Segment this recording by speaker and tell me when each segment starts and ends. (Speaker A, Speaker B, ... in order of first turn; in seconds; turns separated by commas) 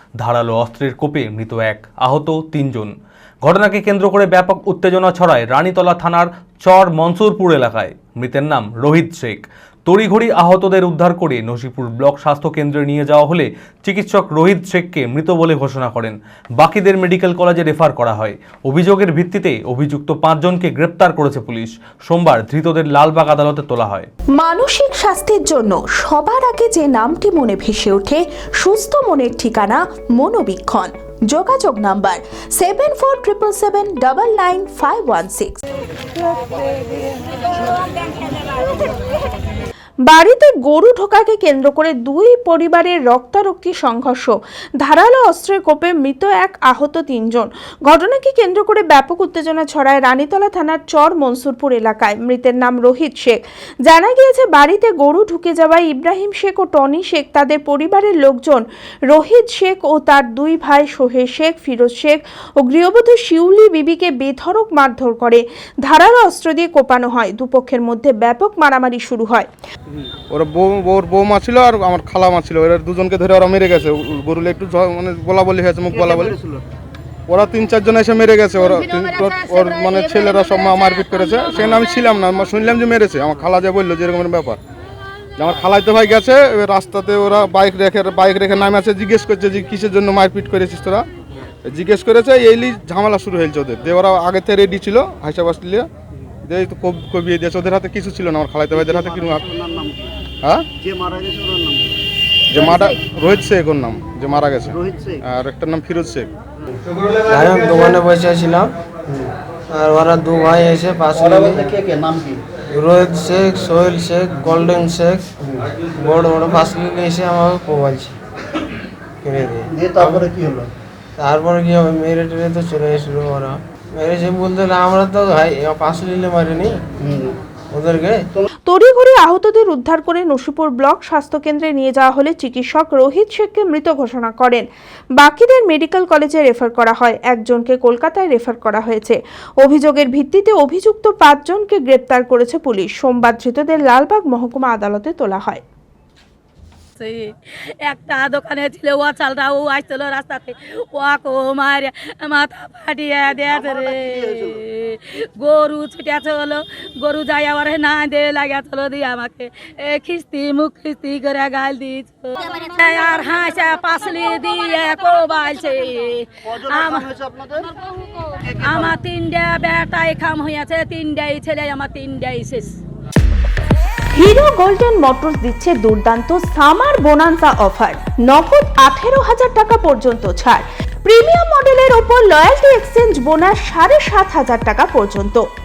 Speaker A: 0.2-2.9, Speaker A: 3.4-24.1, Speaker B: 24.4-35.6, Speaker C: 29.4-29.8, Speaker C: 31.4-32.0, Speaker C: 32.6-35.0, Speaker B: 36.3-36.8, Speaker B: 40.1-69.5, Speaker D: 70.3-76.4, Speaker C: 76.1-76.6, Speaker D: 77.3-84.6, Speaker D: 85.4-91.1, Speaker D: 91.6-95.9, Speaker D: 96.4-99.6, Speaker C: 99.6-100.1, Speaker D: 100.4-100.7, Speaker C: 100.8-101.8, Speaker D: 102.5-106.3, Speaker C: 104.8-105.1, Speaker E: 107.2-108.7, Speaker E: 109.7-112.0, Speaker C: 112.0-112.3, Speaker E: 112.7-118.2, Speaker E: 119.2-120.5, Speaker C: 120.4-120.6, Speaker E: 121.2-126.8, Speaker E: 127.7-128.3, Speaker B: 128.7-134.6, Speaker B: 135.2-145.6, Speaker F: 147.0-167.1, Speaker C: 167.1-167.7, Speaker F: 168.4-172.8, Speaker B: 174.1-185.4